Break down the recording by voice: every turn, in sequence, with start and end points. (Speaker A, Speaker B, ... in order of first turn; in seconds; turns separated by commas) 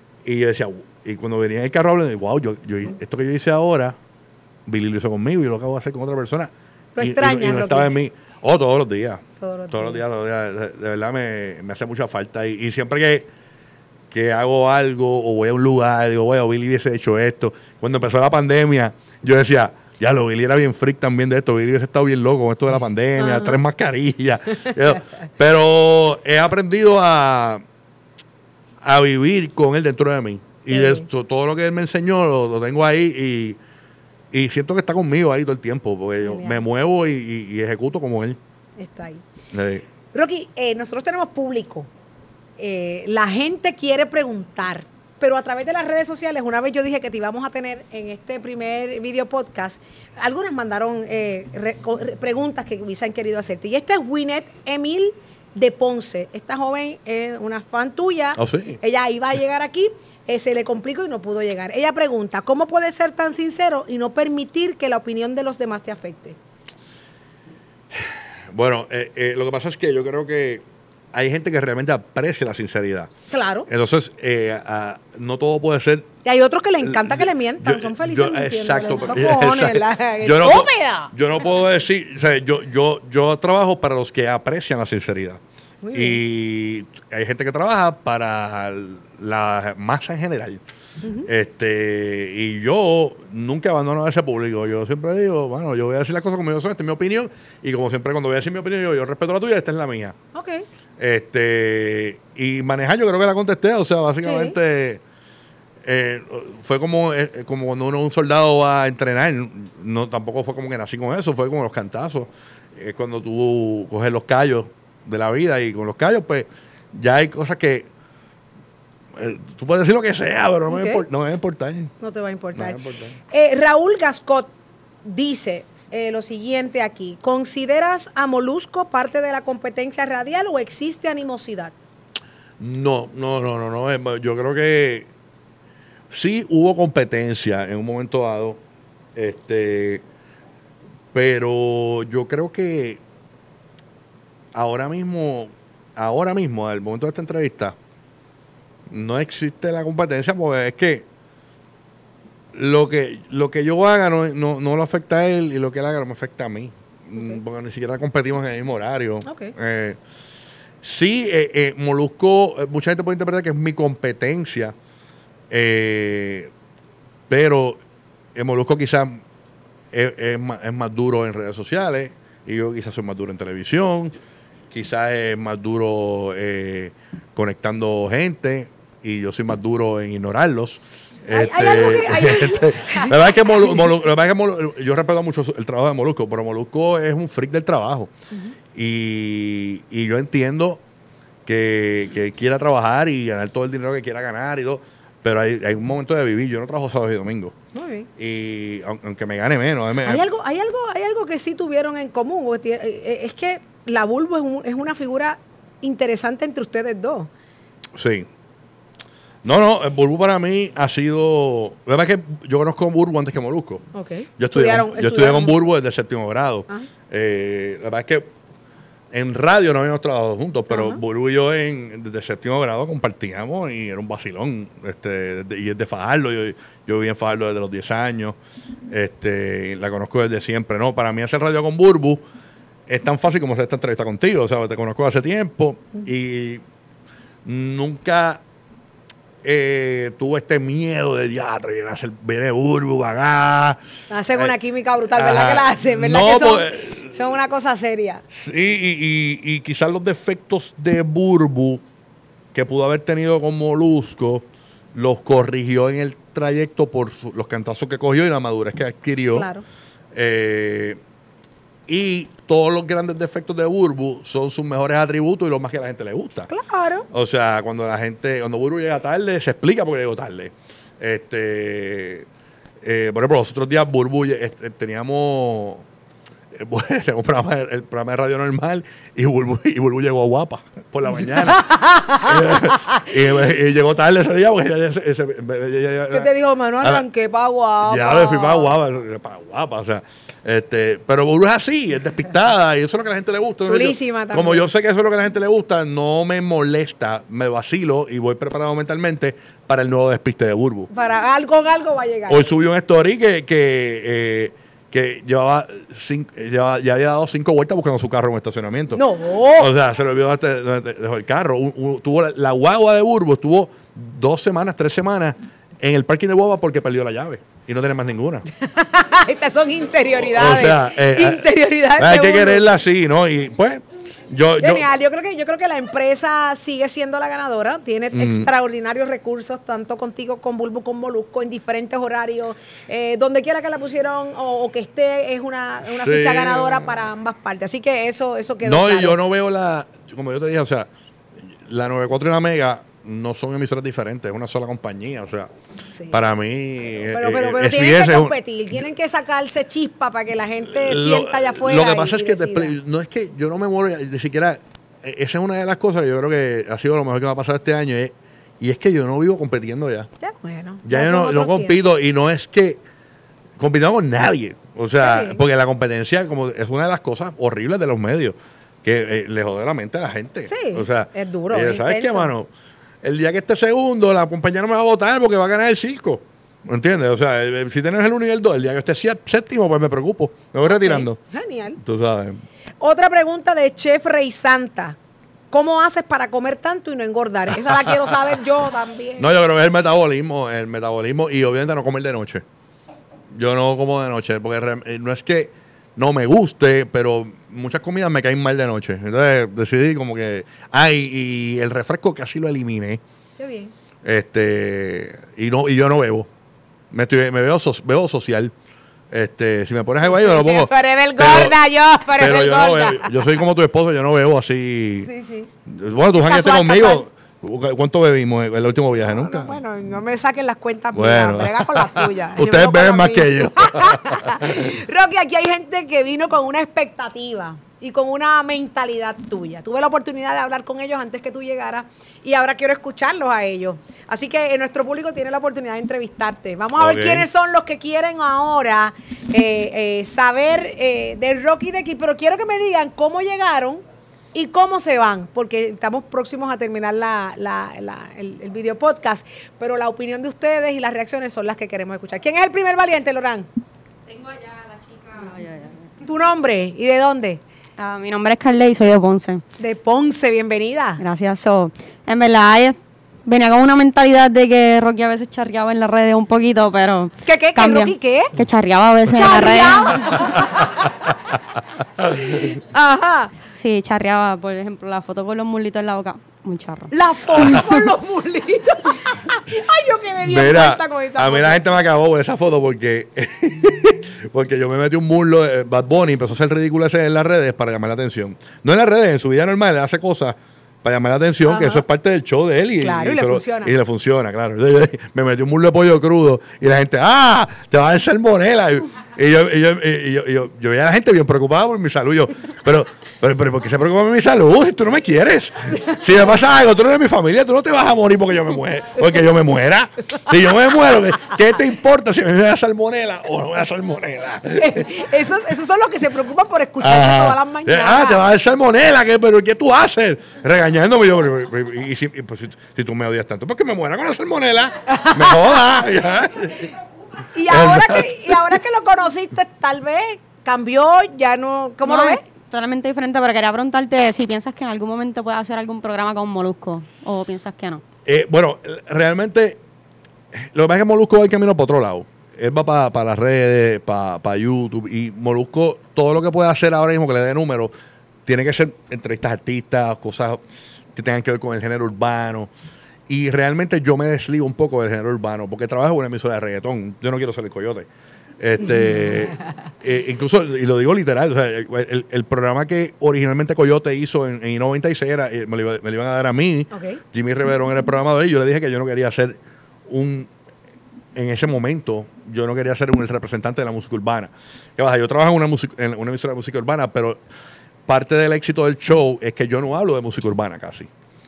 Speaker A: 0.2-4.0, Speaker A: 4.7-13.3, Speaker B: 7.0-7.9, Speaker B: 9.4-10.0, Speaker A: 14.1-27.6, Speaker B: 23.2-23.6, Speaker A: 28.8-33.6, Speaker B: 30.7-31.1, Speaker A: 34.3-38.4, Speaker B: 36.2-36.6, Speaker B: 38.8-39.2, Speaker A: 39.5-39.8, Speaker B: 40.1-41.9, Speaker B: 42.6-66.4, Speaker A: 58.4-58.8, Speaker A: 67.9-73.1, Speaker B: 73.3-73.7, Speaker A: 73.7-76.1, Speaker B: 76.2-81.1, Speaker A: 76.8-85.4, Speaker B: 85.8-86.2, Speaker A: 85.9-90.6, Speaker B: 91.0-91.3, Speaker A: 91.2-100.2, Speaker B: 100.3-100.7, Speaker A: 101.0-105.0, Speaker B: 104.2-104.6, Speaker A: 105.8-117.9, Speaker A: 119.1-121.9, Speaker B: 120.7-121.0, Speaker B: 122.0-122.8, Speaker A: 122.5-123.2, Speaker B: 123.3-124.5, Speaker B: 125.0-131.7, Speaker A: 132.6-135.1, Speaker A: 136.1-138.6, Speaker A: 139.1-140.0, Speaker A: 141.1-143.0, Speaker A: 144.5-147.8, Speaker A: 148.9-151.1, Speaker A: 152.5-160.0, Speaker B: 157.1-157.4, Speaker B: 159.2-159.5, Speaker A: 160.8-164.7, Speaker A: 165.5-166.5, Speaker A: 167.3-167.8, Speaker A: 168.3-169.2, Speaker A: 169.9-174.2, Speaker A: 174.7-188.1, Speaker B: 181.3-183.7, Speaker A: 188.7-190.8, Speaker A: 191.4-197.5, Speaker B: 197.7-198.1, Speaker A: 198.2-200.2, Speaker B: 200.0-207.3, Speaker A: 207.9-208.3, Speaker A: 209.4-213.8, Speaker B: 213.9-215.6, Speaker A: 214.4-218.3, Speaker A: 219.1-228.4, Speaker B: 220.7-221.0, Speaker A: 228.9-232.2, Speaker A: 232.9-236.6, Speaker A: 237.4-238.4, Speaker A: 239.4-243.8, Speaker B: 244.1-248.2, Speaker A: 245.1-247.1, Speaker A: 248.3-251.8, Speaker A: 252.5-259.5, Speaker B: 259.3-259.6, Speaker A: 260.1-261.0, Speaker A: 261.9-266.5, Speaker B: 266.5-267.1, Speaker A: 267.1-272.3, Speaker A: 272.8-275.8, Speaker A: 276.5-286.3, Speaker B: 281.1-283.0, Speaker B: 286.1-288.7, Speaker A: 287.8-300.9, Speaker B: 293.6-294.7, Speaker B: 300.9-302.5, Speaker A: 302.3-309.0, Speaker B: 308.9-309.7, Speaker A: 309.6-318.4, Speaker B: 318.5-322.7, Speaker A: 320.1-324.9, Speaker B: 324.6-339.2, Speaker A: 328.1-328.5, Speaker A: 335.8-336.8, Speaker A: 338.6-340.9, Speaker A: 341.6-345.5, Speaker A: 346.1-348.3, Speaker B: 347.1-352.8, Speaker A: 350.7-360.1, Speaker B: 360.2-361.8, Speaker A: 360.8-362.8, Speaker A: 363.6-372.5, Speaker B: 365.0-365.4, Speaker B: 370.5-372.3, Speaker A: 373.0-381.2, Speaker B: 380.6-381.8, Speaker A: 381.8-382.4, Speaker B: 382.8-385.0, Speaker B: 385.5-389.3, Speaker A: 389.2-392.4, Speaker A: 393.3-403.0, Speaker B: 403.4-403.7, Speaker A: 404.0-406.3, Speaker A: 406.9-408.5, Speaker A: 409.1-411.6, Speaker B: 410.1-413.1, Speaker A: 412.1-415.1, Speaker B: 415.0-415.5, Speaker A: 415.6-419.6, Speaker B: 416.2-417.0, Speaker B: 419.1-443.8, Speaker A: 420.9-424.7, Speaker A: 436.8-437.3, Speaker B: 444.3-453.5, Speaker C: 455.1-455.7, Speaker B: 456.0-457.4, Speaker C: 457.8-459.4, Speaker B: 459.6-461.0, Speaker C: 461.0-470.3, Speaker B: 467.2-468.3, Speaker B: 469.1-470.6, Speaker B: 472.3-473.4, Speaker C: 473.5-476.9, Speaker B: 476.9-481.6, Speaker A: 480.2-514.9, Speaker B: 491.4-491.8, Speaker B: 492.8-493.8, Speaker B: 514.5-518.2, Speaker A: 516.8-526.7, Speaker B: 524.9-525.5, Speaker B: 527.3-532.2, Speaker A: 527.5-528.5, Speaker C: 531.8-537.8, Speaker A: 538.0-539.6, Speaker A: 540.3-547.7, Speaker A: 548.2-550.4, Speaker A: 550.9-552.5, Speaker A: 553.1-557.9, Speaker A: 558.4-570.3, Speaker B: 566.7-567.0, Speaker A: 571.1-577.2, Speaker A: 577.9-580.9